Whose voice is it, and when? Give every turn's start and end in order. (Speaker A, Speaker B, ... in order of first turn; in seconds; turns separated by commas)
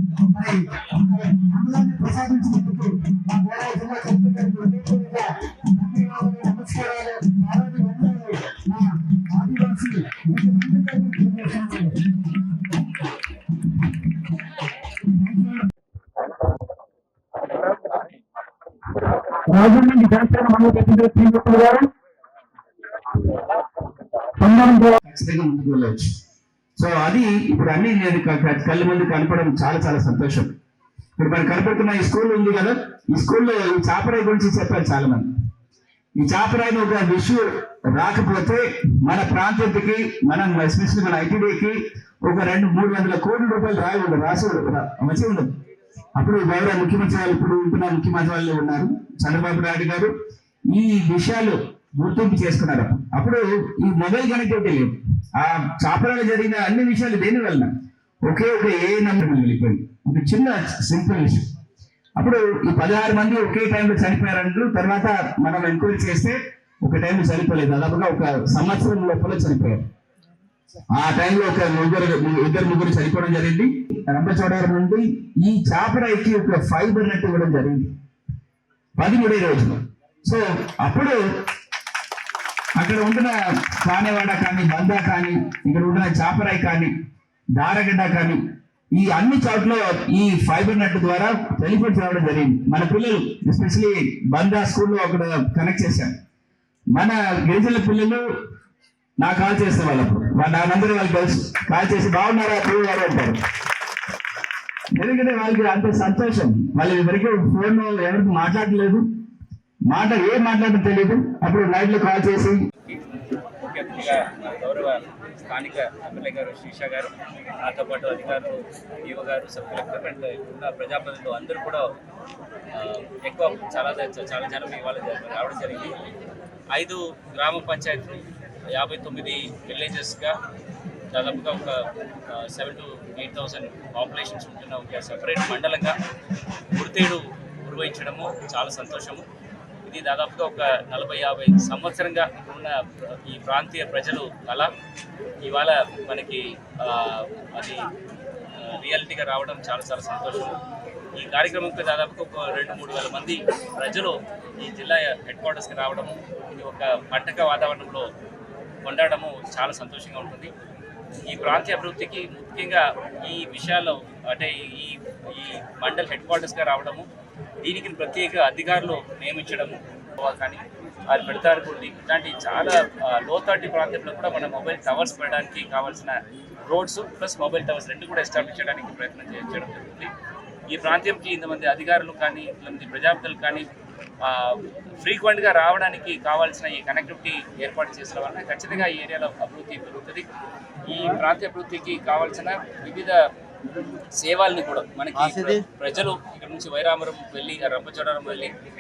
Speaker A: 0.2-12.1, Speaker A: 15.2-15.5, Speaker A: 19.5-21.9, Speaker A: 24.5-25.0, Speaker B: 25.0-26.1, Speaker B: 26.8-30.5, Speaker B: 31.2-35.3, Speaker B: 36.2-45.5, Speaker B: 46.2-50.1, Speaker B: 50.7-57.7, Speaker B: 58.2-61.5, Speaker B: 62.2-69.8, Speaker B: 70.9-77.9, Speaker B: 79.0-81.2, Speaker B: 82.8-86.9, Speaker B: 87.5-88.4, Speaker B: 88.9-96.1, Speaker B: 97.0-98.2, Speaker B: 99.2-103.4, Speaker B: 105.0-109.0, Speaker B: 109.9-112.6, Speaker C: 113.6-117.0, Speaker B: 113.7-114.0, Speaker B: 115.6-117.0, Speaker C: 117.7-118.5, Speaker B: 117.7-118.4, Speaker C: 119.1-121.8, Speaker B: 119.1-119.7, Speaker B: 120.9-121.6, Speaker C: 122.8-125.1, Speaker B: 123.2-125.9, Speaker C: 126.7-127.9, Speaker B: 127.3-128.2, Speaker C: 128.8-130.3, Speaker B: 128.8-129.7, Speaker C: 131.1-131.7, Speaker C: 132.3-135.9, Speaker B: 133.1-134.6, Speaker B: 135.2-135.9, Speaker C: 136.8-139.2, Speaker C: 139.9-142.7, Speaker B: 139.9-140.2, Speaker B: 141.2-142.3, Speaker C: 143.3-144.7, Speaker B: 143.6-144.7, Speaker C: 145.4-147.7, Speaker C: 148.6-150.5, Speaker B: 149.2-149.5, Speaker B: 150.2-150.5, Speaker C: 151.2-158.0, Speaker B: 153.0-153.3, Speaker B: 154.6-154.9, Speaker C: 158.8-160.5, Speaker C: 161.2-167.1, Speaker C: 167.6-180.1, Speaker C: 180.7-183.7, Speaker C: 184.2-190.2, Speaker B: 189.4-190.0, Speaker C: 190.9-193.1, Speaker C: 194.2-198.5, Speaker B: 197.2-198.2